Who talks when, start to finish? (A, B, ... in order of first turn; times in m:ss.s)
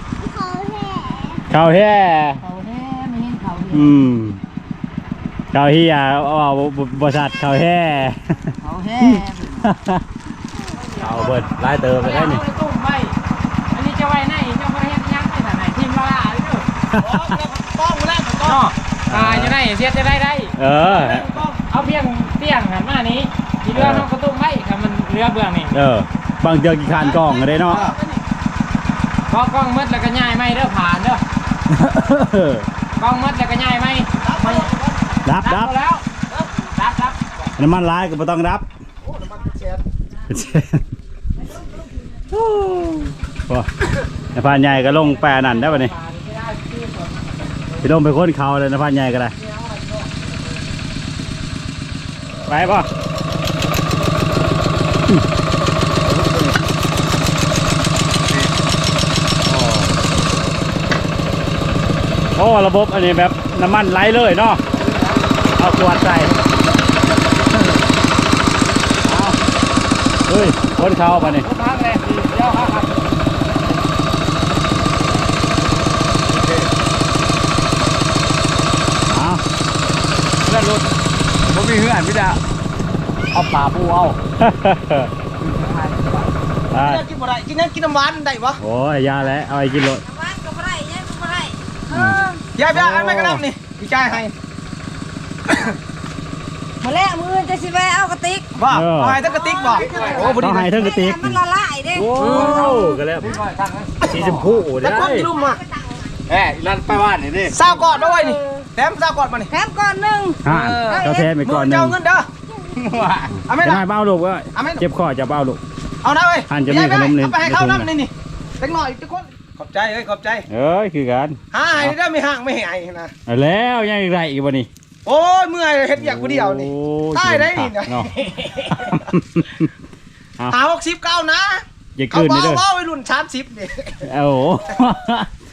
0:00.2-0:01.4 A
0:01.5-0:02.4 B
0:02.5-0:03.9 A
0:03.7-0:04.4 B
0:05.5-0:10.1 B
0:08.8-0:09.0 A
0:09.0-0:09.4 C
0:10.7-0:13.2 C
0:11.0-0:12.4 B
0:13.7-0:16.7 C
0:16.9-0:17.4 B
0:17.0-0:18.7 D
0:18.5-0:20.6 C
0:19.1-0:19.5 B
0:20.6-0:21.2 B
0:20.8-0:21.6 D
0:21.6-0:25.9 C
0:23.7-0:24.1 B
0:25.7-0:27.8 B
0:26.9-0:28.3 D
0:27.7-0:28.0 C
0:29.3-0:31.2 C
0:31.7-0:32.7 B
0:33.0-0:34.7 C
0:34.2-0:35.2 D
0:35.2-0:35.7 B
0:35.4-0:37.5 C
0:37.6-0:38.7 B
0:39.0-0:39.8 D
0:40.3-0:40.8 B
0:42.3-0:43.7 B
0:44.3-0:45.9 B
0:44.5-0:47.9 C
0:47.8-0:49.3 B
0:49.4-0:50.4 C
0:52.5-0:52.9 B
0:56.1-0:56.6 E
0:58.3-0:58.5 E
0:59.4-0:59.9 E
1:02.4-1:04.6 B
1:04.7-1:05.2 E
1:05.6-1:06.4 B
1:09.1-1:09.4 B
1:10.3-1:11.5 B
1:11.1-1:13.2 C
1:16.3-1:16.7 E
1:19.1-1:19.4 B
1:20.4-1:22.4 E
1:23.4-1:24.2 E
1:24.4-1:25.1 B
1:25.4-1:26.3 E
1:26.7-1:27.0 B
1:26.7-1:28.6 D
1:28.6-1:30.0 B
1:30.0-1:32.4 A
1:31.9-1:33.4 B
1:32.6-1:34.3 D
1:35.5-1:35.8 D
1:36.8-1:38.5 A
1:38.6-1:40.9 D
1:38.7-1:39.2 B
1:39.2-1:43.0 A
1:39.8-1:40.4 E
1:40.3-1:41.4 B
1:41.9-1:43.4 B
1:42.2-1:44.7 E
1:44.1-1:45.3 B
1:44.3-1:45.6 D
1:45.2-1:46.2 A
1:46.3-1:47.8 E
1:47.5-1:49.5 D
1:47.9-1:48.7 A
1:49.5-1:51.2 A
1:50.4-1:52.0 B
1:50.5-1:52.3 D
1:52.8-1:53.4 E
1:53.5-1:53.8 D
1:53.6-1:55.6 B
1:54.6-1:54.8 D
1:56.0-2:00.5 D
1:56.5-1:57.9 B
2:00.5-2:01.9 B
2:01.5-2:03.1 D
2:03.3-2:04.7 B
2:05.0-2:09.2 D
2:06.0-2:08.1 B
2:08.7-2:09.7 B
2:10.5-2:14.1 D
2:12.0-2:12.6 B
2:14.0-2:15.3 B